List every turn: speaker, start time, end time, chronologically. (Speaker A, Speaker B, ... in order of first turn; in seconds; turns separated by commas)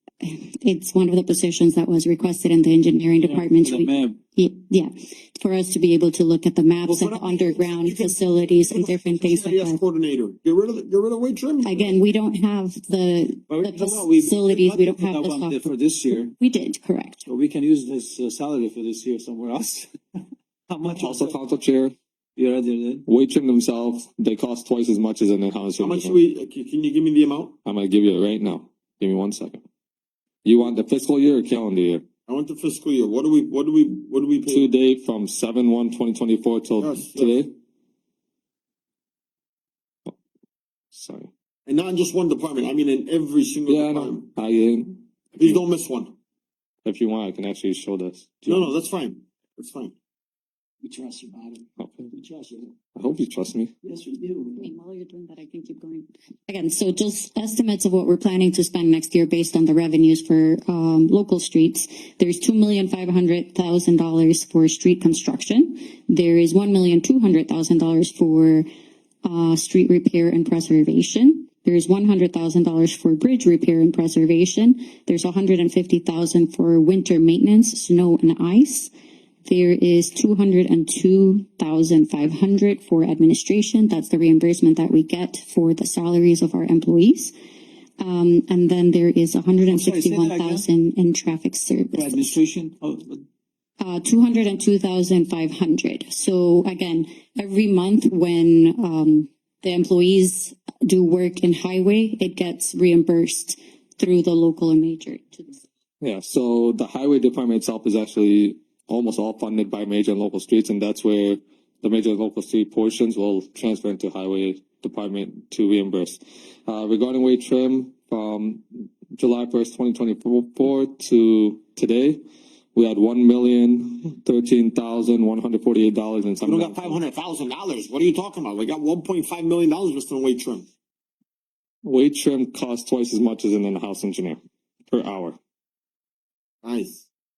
Speaker A: 0.2-9.8, Speaker B: 3.2-4.2, Speaker C: 6.9-12.0, Speaker A: 11.6-17.2, Speaker B: 13.5-16.3, Speaker B: 17.3-19.9, Speaker B: 20.7-21.1, Speaker D: 21.0-21.9, Speaker B: 22.4-23.1, Speaker D: 23.1-26.2, Speaker C: 25.8-27.5, Speaker D: 27.6-29.6, Speaker D: 30.4-32.0, Speaker C: 32.3-34.6, Speaker D: 34.5-37.5, Speaker C: 36.8-37.4, Speaker D: 40.9-41.3, Speaker C: 41.7-44.2, Speaker D: 43.7-45.6, Speaker C: 45.4-46.1, Speaker D: 46.9-48.7, Speaker C: 48.5-49.9, Speaker B: 50.8-51.6, Speaker D: 51.8-52.1, Speaker D: 53.0-53.7, Speaker B: 53.9-54.6, Speaker A: 54.5-68.7, Speaker A: 69.2-78.9, Speaker A: 79.5-87.3, Speaker A: 88.0-92.3, Speaker B: 89.7-90.7, Speaker B: 91.9-93.2, Speaker A: 93.8-105.6, Speaker D: 106.0-122.2, Speaker D: 122.7-127.0, Speaker C: 126.4-130.7, Speaker D: 131.8-135.4, Speaker C: 136.6-137.1